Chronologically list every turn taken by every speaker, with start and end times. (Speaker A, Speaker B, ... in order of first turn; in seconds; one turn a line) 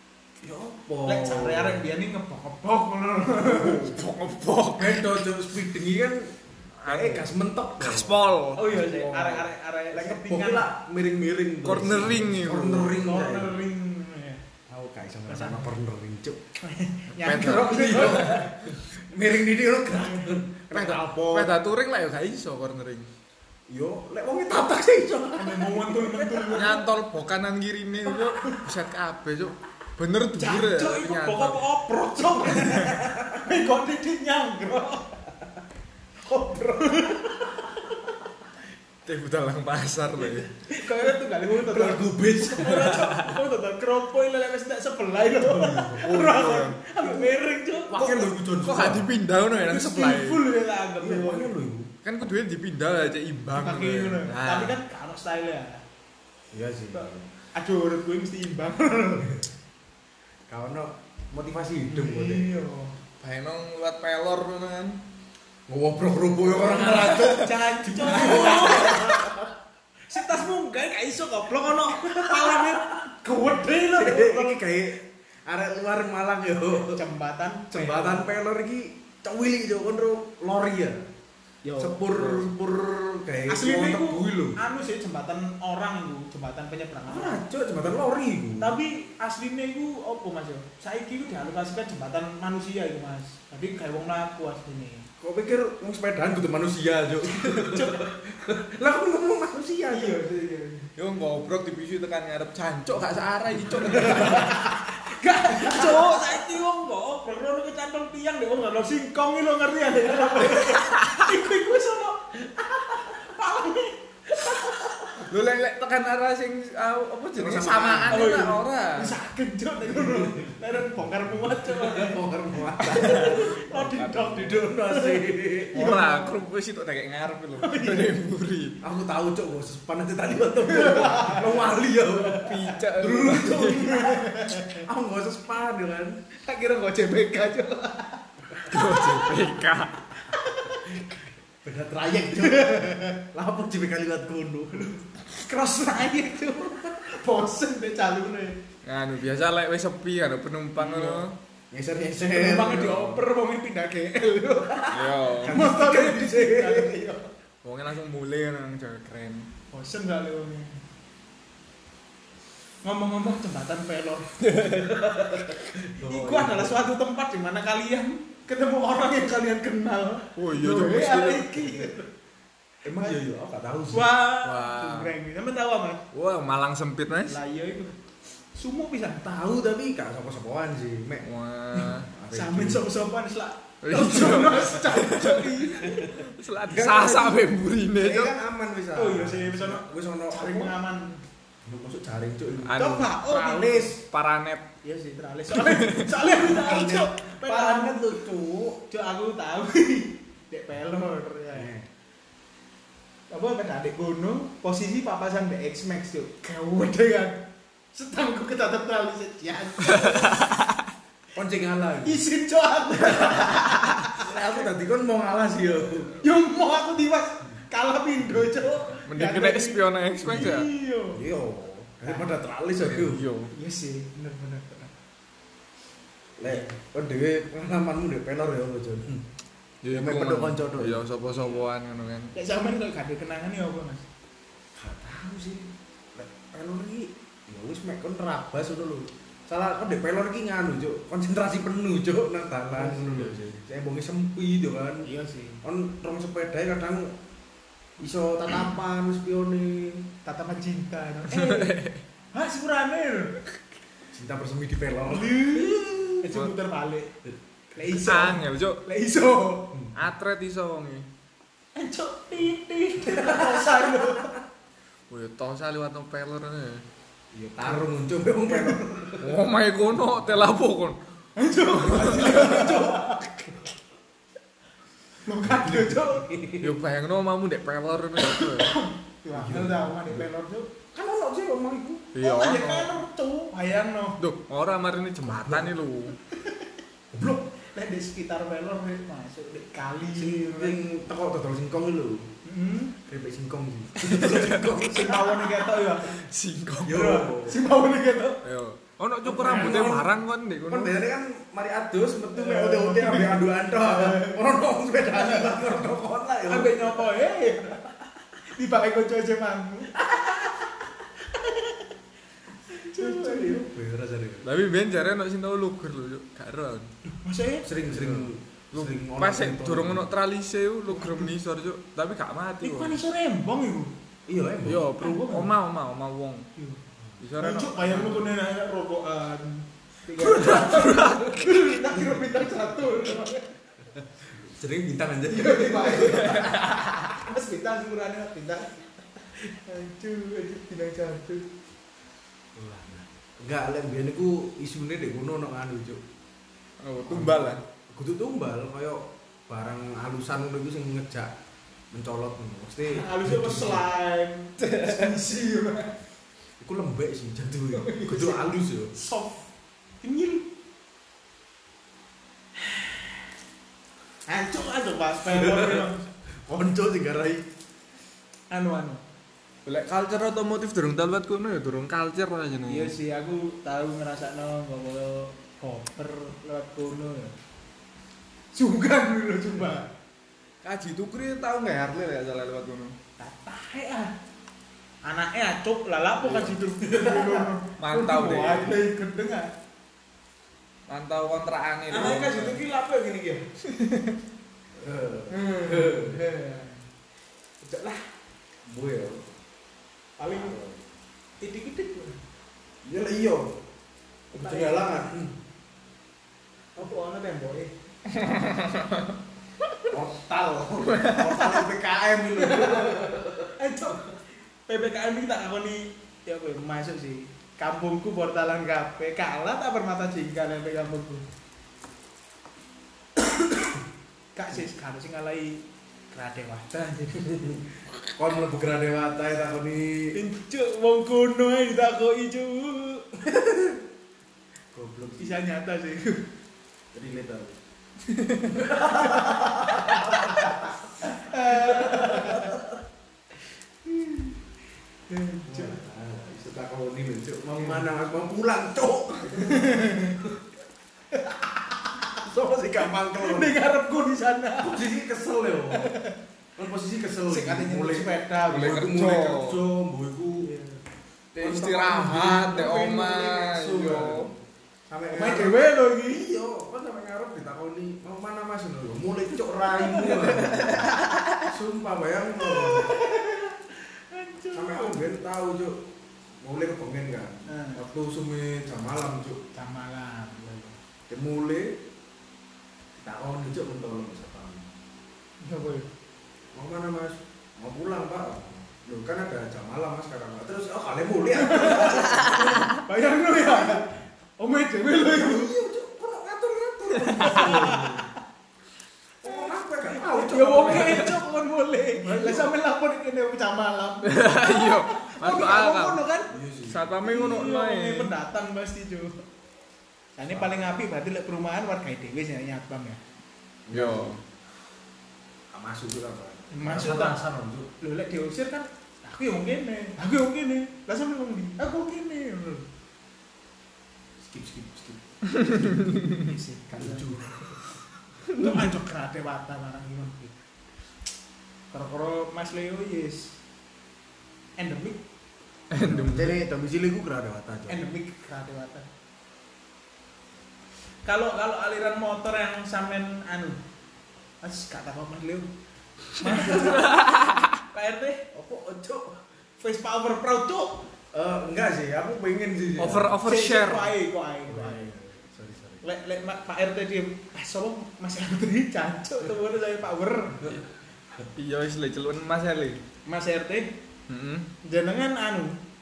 Speaker A: 0.4-1.8
Speaker B: 1.0-3.9
Speaker C: 3.5-5.2
Speaker A: 4.7-8.9
Speaker C: 6.8-9.4
Speaker B: 8.5-10.7
Speaker A: 9.9-13.6
Speaker C: 11.6-12.9
Speaker B: 13.0-14.4
Speaker A: 14.7-16.4
Speaker B: 15.3-15.7
Speaker B: 16.6-18.5
Speaker C: 17.2-18.5
Speaker A: 17.3-21.5
Speaker B: 20.0-20.4
Speaker C: 20.7-23.1
Speaker A: 23.7-26.7
Speaker B: 25.4-26.8
Speaker C: 26.5-31.6
Speaker B: 30.4-35.2
Speaker C: 32.4-32.9
Speaker A: 32.5-33.5
Speaker B: 36.2-38.1
Speaker C: 39.0-40.5
Speaker B: 40.5-48.3
Speaker A: 40.9-43.1
Speaker C: 43.0-43.3
Speaker A: 45.3-46.2
Speaker C: 46.0-46.8
Speaker A: 47.0-49.1
Speaker C: 48.6-50.4
Speaker B: 49.6-51.5
Speaker A: 51.0-51.9
Speaker C: 52.0-54.8
Speaker B: 53.6-55.8
Speaker A: 56.5-57.3
Speaker B: 56.9-59.4
Speaker A: 60.5-62.5
Speaker B: 61.9-62.9
Speaker C: 63.2-65.0
Speaker A: 65.7-69.5
Speaker B: 66.5-69.5
Speaker C: 66.7-67.4
Speaker C: 68.2-68.7
Speaker B: 70.1-74.6
Speaker A: 71.9-73.0
Speaker A: 73.9-77.0
Speaker B: 76.8-78.3
Speaker A: 77.7-81.0
Speaker B: 81.6-82.1
Speaker A: 81.8-84.6
Speaker C: 82.2-82.4
Speaker B: 83.5-87.4
Speaker A: 87.1-88.7
Speaker B: 88.6-95.1
Speaker A: 95.2-100.2
Speaker B: 97.3-98.1
Speaker B: 99.9-100.9
Speaker C: 101.0-104.8
Speaker B: 103.9-115.2
Speaker A: 103.9-104.3
Speaker C: 105.5-106.6
Speaker C: 110.7-111.2
Speaker C: 115.2-119.1
Speaker A: 117.3-118.3
Speaker B: 118.1-126.4
Speaker A: 119.8-120.6
Speaker A: 121.4-125.9
Speaker C: 122.9-124.4
Speaker C: 125.7-128.8
Speaker B: 127.6-128.1
Speaker A: 128.8-136.2
Speaker B: 130.6-131.7
Speaker C: 132.2-134.0
Speaker B: 132.5-134.9
Speaker B: 136.4-139.2
Speaker C: 138.7-140.1
Speaker B: 140.2-141.0
Speaker A: 141.6-145.0
Speaker B: 142.3-143.2
Speaker B: 145.2-148.6
Speaker C: 148.8-151.4
Speaker B: 150.8-151.2
Speaker A: 151.7-152.9
Speaker B: 152.2-157.3
Speaker C: 152.7-153.2
Speaker C: 154.9-155.6
Speaker A: 155.4-157.0
Speaker C: 157.6-159.5
Speaker B: 159.7-160.8
Speaker B: 162.8-164.7
Speaker C: 164.5-164.9
Speaker A: 164.9-166.9
Speaker B: 166.0-172.0
Speaker C: 170.3-171.8
Speaker A: 172.8-174.1
Speaker B: 172.9-173.2
Speaker B: 173.9-176.0
Speaker C: 174.4-175.1
Speaker C: 176.1-177.4
Speaker B: 177.2-178.0
Speaker B: 178.5-179.3
Speaker A: 179.2-182.8
Speaker C: 181.2-182.1
Speaker B: 182.3-186.2
Speaker C: 183.8-188.3
Speaker A: 186.7-190.7
Speaker B: 188.9-191.2
Speaker A: 191.6-192.8
Speaker C: 192.6-194.7
Speaker B: 192.7-194.0
Speaker B: 194.8-198.1
Speaker C: 195.5-196.1
Speaker A: 196.3-198.8
Speaker B: 198.9-201.7
Speaker A: 201.5-201.9
Speaker B: 203.3-210.6
Speaker C: 209.9-210.8
Speaker A: 211.3-212.2
Speaker B: 212.0-214.3
Speaker A: 213.1-216.2
Speaker B: 216.2-221.2
Speaker C: 219.1-220.7
Speaker A: 221.1-223.2
Speaker B: 222.0-222.3
Speaker C: 222.8-223.5
Speaker B: 223.5-224.9
Speaker A: 226.4-229.2
Speaker C: 229.8-232.3
Speaker A: 229.9-231.1
Speaker B: 232.3-234.1
Speaker A: 234.8-245.1
Speaker C: 242.9-243.5
Speaker B: 245.0-245.6
Speaker A: 245.6-247.1
Speaker A: 248.0-250.1
Speaker B: 250.2-253.4
Speaker C: 251.3-252.0
Speaker A: 254.1-256.3
Speaker B: 255.1-257.1
Speaker B: 257.7-259.7
Speaker C: 257.9-258.8
Speaker C: 259.9-261.1
Speaker B: 261.8-264.4
Speaker A: 263.0-264.3
Speaker C: 265.1-266.8
Speaker A: 267.3-269.3
Speaker B: 268.4-268.9
Speaker C: 269.2-271.0
Speaker B: 271.4-273.3
Speaker A: 271.8-273.5
Speaker C: 271.8-272.5
Speaker B: 275.2-276.3
Speaker A: 275.4-276.8
Speaker C: 276.6-278.7
Speaker B: 278.2-280.7
Speaker A: 279.3-280.2
Speaker A: 280.9-282.1
Speaker C: 282.1-283.0
Speaker B: 282.2-284.2
Speaker C: 284.2-286.2
Speaker A: 285.3-285.7
Speaker A: 287.1-287.5
Speaker B: 287.7-290.8
Speaker A: 290.1-292.3
Speaker B: 292.4-293.0
Speaker A: 293.1-295.5
Speaker C: 294.0-294.8
Speaker B: 294.8-296.2
Speaker C: 296.1-297.2
Speaker A: 296.8-297.6
Speaker B: 296.9-298.4
Speaker C: 298.4-300.9
Speaker A: 299.2-300.1
Speaker B: 299.3-300.0
Speaker A: 300.7-307.0
Speaker B: 302.3-304.4
Speaker B: 305.1-305.9
Speaker B: 306.5-307.9
Speaker B: 308.5-310.5
Speaker A: 310.1-310.4
Speaker B: 311.3-311.9
Speaker B: 312.7-313.6
Speaker A: 312.9-314.5
Speaker C: 314.4-316.9
Speaker B: 317.2-317.7
Speaker A: 317.6-320.1
Speaker C: 317.9-323.0
Speaker B: 320.9-321.3
Speaker B: 322.6-323.9
Speaker A: 324.3-324.9
Speaker C: 324.6-326.5
Speaker B: 325.0-325.5
Speaker C: 327.2-328.3
Speaker B: 327.4-333.6
Speaker C: 330.2-331.4
Speaker A: 330.4-331.1
Speaker A: 331.9-332.2
Speaker A: 334.2-336.6
Speaker B: 335.3-338.8
Speaker C: 336.1-336.8
Speaker B: 339.3-341.4
Speaker A: 342.6-346.0
Speaker C: 346.8-347.6
Speaker A: 347.0-351.3
Speaker A: 351.9-353.8
Speaker B: 352.8-355.9
Speaker C: 354.6-355.1
Speaker A: 356.6-358.9
Speaker B: 357.7-359.4
Speaker B: 360.0-360.4
Speaker B: 362.6-363.1
Speaker B: 364.3-366.0
Speaker A: 365.3-365.9
Speaker A: 366.4-367.5
Speaker B: 368.5-369.0
Speaker C: 369.6-372.9
Speaker B: 372.7-377.4
Speaker B: 378.5-379.9
Speaker C: 380.6-382.9
Speaker B: 383.2-384.1
Speaker B: 385.1-389.5
Speaker A: 386.2-387.5
Speaker C: 387.8-388.8
Speaker C: 390.9-392.6
Speaker B: 391.9-393.4
Speaker A: 394.7-396.2
Speaker B: 395.3-396.8
Speaker B: 397.6-398.1
Speaker A: 398.6-399.2
Speaker B: 400.2-400.6
Speaker A: 400.2-400.8
Speaker B: 401.4-402.2
Speaker A: 402.8-403.6
Speaker B: 404.3-405.1
Speaker A: 404.3-405.4
Speaker B: 406.8-407.7
Speaker C: 408.1-409.2
Speaker A: 409.9-413.5
Speaker C: 410.8-411.6
Speaker B: 412.4-421.2
Speaker B: 424.3-427.6
Speaker A: 428.1-430.1
Speaker B: 430.1-433.1
Speaker A: 433.2-433.8
Speaker A: 434.7-435.4
Speaker B: 435.2-436.2
Speaker A: 436.9-437.6
Speaker B: 438.4-442.6
Speaker A: 438.5-440.6
Speaker A: 441.4-442.8
Speaker B: 443.9-444.4
Speaker B: 445.1-445.8
Speaker A: 445.4-450.4
Speaker B: 447.6-447.8
Speaker B: 449.4-450.2
Speaker B: 451.1-452.1
Speaker A: 452.2-453.5
Speaker B: 453.1-454.8
Speaker A: 454.6-455.9
Speaker B: 455.7-456.2
Speaker A: 456.6-460.5
Speaker B: 457.3-458.9
Speaker C: 458.5-459.6
Speaker B: 460.4-460.8
Speaker C: 461.3-464.3
Speaker A: 461.4-464.4
Speaker A: 464.9-472.9
Speaker B: 465.1-466.3
Speaker B: 469.8-470.4
Speaker B: 472.4-475.1
Speaker A: 474.5-475.8
Speaker A: 476.4-479.4
Speaker B: 477.5-477.8
Speaker B: 479.5-480.7
Speaker A: 481.1-481.8
Speaker A: 483.0-484.7
Speaker B: 485.4-485.9
Speaker A: 486.5-492.7
Speaker B: 491.3-495.5
Speaker A: 493.4-493.9
Speaker A: 495.0-498.1
Speaker C: 497.0-497.7
Speaker B: 497.1-498.1
Speaker A: 499.2-501.2
Speaker B: 499.2-506.3
Speaker C: 500.7-501.1
Speaker A: 502.0-502.5
Speaker C: 504.0-506.0
Speaker A: 506.3-506.8
Speaker C: 506.7-508.1
Speaker B: 507.0-509.2
Speaker B: 510.1-513.0
Speaker A: 510.3-510.7
Speaker A: 513.6-514.2
Speaker C: 513.7-514.2
Speaker A: 515.5-517.7
Speaker B: 516.5-517.2
Speaker B: 517.8-522.6
Speaker A: 524.2-525.0
Speaker C: 525.2-526.2
Speaker B: 526.1-527.1
Speaker A: 526.7-527.6
Speaker C: 528.3-528.6
Speaker B: 528.3-530.4
Speaker B: 531.7-533.4
Speaker B: 534.6-535.0
Speaker C: 535.7-536.4
Speaker A: 535.7-537.8
Speaker B: 537.7-538.9
Speaker B: 541.0-543.6
Speaker B: 544.4-545.5
Speaker B: 546.1-548.3
Speaker C: 546.4-547.6
Speaker A: 548.3-549.2
Speaker B: 549.6-550.9
Speaker A: 551.1-553.2
Speaker C: 552.8-553.9
Speaker B: 553.2-554.9
Speaker A: 554.5-555.8
Speaker B: 555.8-560.5
Speaker C: 561.3-562.8
Speaker B: 563.0-563.8
Speaker C: 564.1-564.5
Speaker B: 564.6-565.6